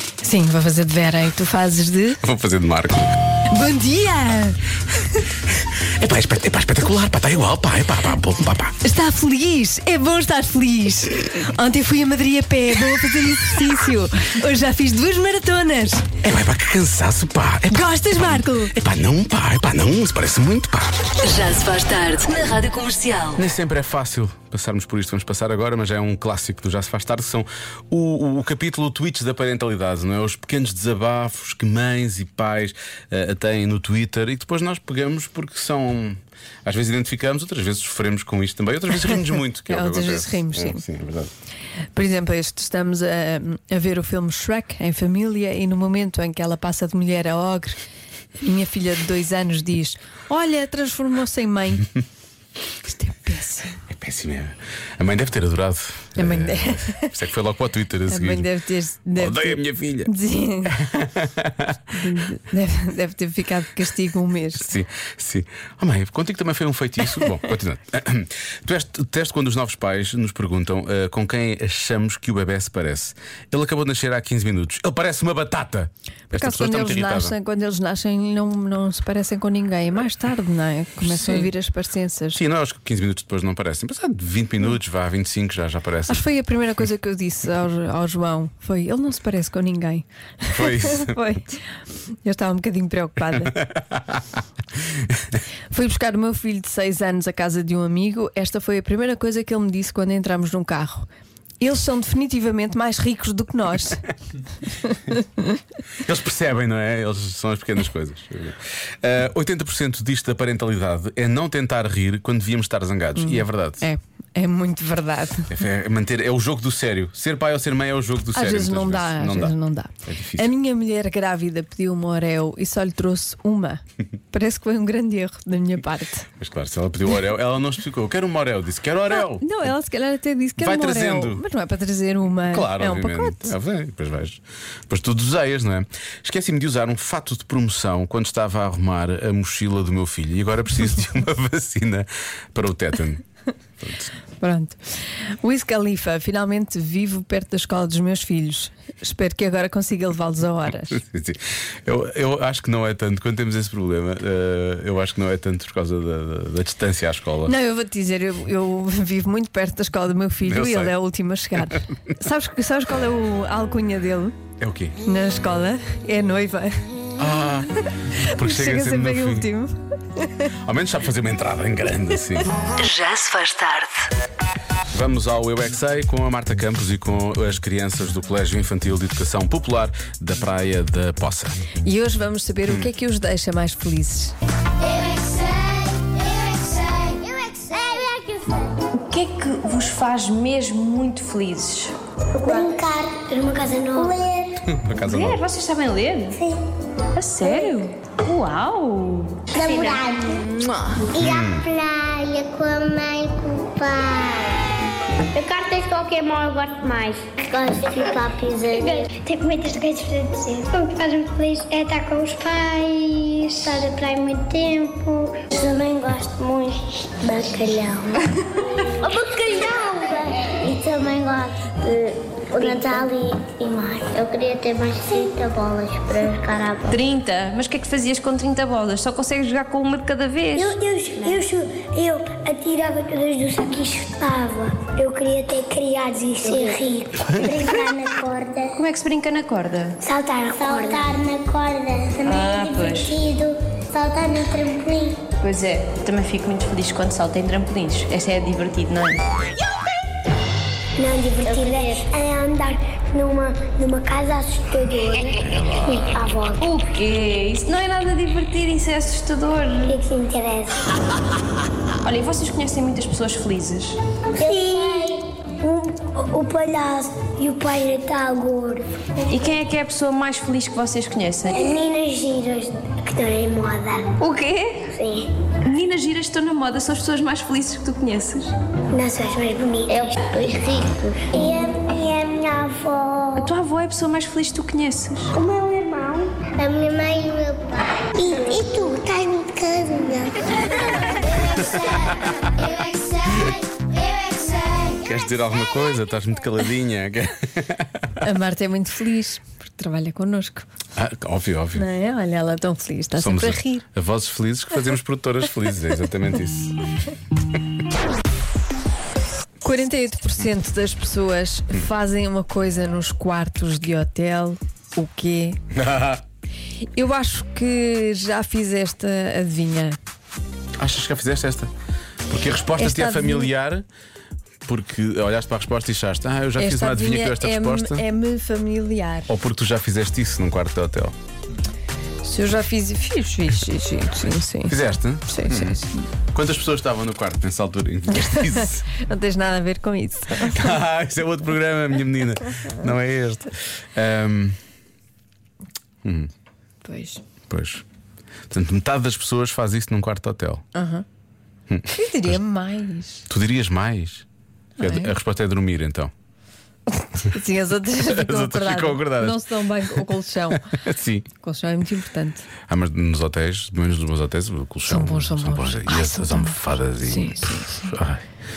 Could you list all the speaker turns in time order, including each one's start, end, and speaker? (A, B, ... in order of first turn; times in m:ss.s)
0:00.2-0:02.2 A
0:02.2-0:03.1 B
0:03.5-0:04.6 A
0:06.0-0:08.8 B
0:08.8-0:16.1 A
0:16.2-0:21.1 B
0:17.7-0:18.7 A
0:21.2-0:23.2 C
0:23.3-0:41.3 B
0:38.9-0:40.8 A
0:41.9-0:47.8 A
0:48.4-0:51.9 A
0:52.8-0:53.8 A
0:53.9-0:58.5 B
0:56.2-0:57.1 A
0:58.1-1:00.8 A
0:59.2-1:00.1 B
1:00.8-1:01.8 B
1:01.9-1:04.7 A
1:04.6-1:17.4 B
1:16.3-1:22.4 A
1:21.0-1:21.5 B
1:22.4-1:26.2 B
1:26.1-1:31.6 A
1:30.5-1:31.2 B
1:32.2-1:33.6 A
1:35.7-1:41.1 A
1:41.6-1:44.1 A
1:44.9-1:45.6 A
1:46.0-1:53.8 B
1:53.2-1:55.6 A
1:55.5-2:00.5 B
1:58.3-2:06.3 A
2:06.4-2:09.7 B
2:09.1-2:13.6 A
2:10.6-2:11.4 B
2:12.5-2:23.2 B
2:23.8-2:24.1 B
2:24.4-2:31.0 A
2:30.9-2:37.5 B
2:37.4-2:44.4 A
2:40.5-2:40.9 B
2:44.6-2:45.0 B
2:45.0-2:46.9 A
2:47.2-2:47.7 B
2:48.3-2:50.5 A
2:48.4-2:49.5 B
2:50.6-2:52.5 B
2:52.7-2:53.9 C
2:54.9-3:01.6 B
3:01.8-3:04.4 A
3:07.2-3:08.3 D
3:09.1-3:11.9 E
3:09.1-3:11.9 A
3:12.4-3:14.6 D
3:14.7-3:15.4 B
3:15.1-3:16.4 E
3:17.2-3:20.1 E
3:17.3-3:17.8 A
3:19.5-3:20.5 D
3:21.1-3:24.6 D
3:21.2-3:21.7 B
3:26.8-3:38.2 D
3:39.0-3:47.0 D
3:42.6-3:43.0 E
3:46.9-3:50.7 E
3:50.6-3:58.8 D
3:58.8-3:59.9 E
3:59.0-3:59.9 A
4:00.0-4:05.2 D
4:02.3-4:03.1 E
4:05.4-4:09.1 E
4:07.0-4:09.1 A
4:11.0-4:16.7 D
4:16.6-4:20.0 E
4:19.9-4:20.9 D
4:22.0-4:23.9 E
4:24.4-4:28.9 D
4:29.3-4:31.7 E
4:31.5-4:34.1 D
4:34.2-4:34.7 A
4:34.9-4:35.3 D
4:35.7-4:38.5 E
4:36.9-4:38.1 A
4:38.9-4:43.5 D
4:43.4-4:45.3 E
4:43.7-4:45.2 A
4:45.3-4:50.6 D
4:51.4-4:52.8 D
4:53.3-4:54.8 D
4:55.0-4:58.1 B
4:58.2-5:00.7 A
5:01.0-5:01.8 B
5:01.8-5:03.8 A
5:03.2-5:06.7 B
5:09.6-5:15.6 A
5:15.7-5:16.2 B
5:16.9-5:20.0 A
5:20.8-5:21.7 B
5:22.3-5:23.8 B
5:22.8-5:23.5 A
5:24.7-5:28.0 B
5:26.6-5:29.3 A
5:29.3-5:31.2 B
5:32.2-5:36.1 A
5:34.7-5:35.8 B
5:36.3-5:38.8 B
5:38.1-5:40.8 A
5:40.4-5:44.6 B
5:46.0-5:46.3 B
5:46.8-5:47.2 A
5:47.5-5:47.8 B
5:48.5-5:50.6 B
5:50.7-5:51.0 A
5:51.7-5:52.4 B
5:51.9-5:53.2 A
5:53.3-5:54.2 B
5:54.8-5:55.1 A
5:54.8-5:56.1 B
5:56.9-6:00.6 A
5:58.1-6:01.3 B
6:01.4-6:02.5 A
6:02.7-6:08.2 B
6:04.9-6:07.8 A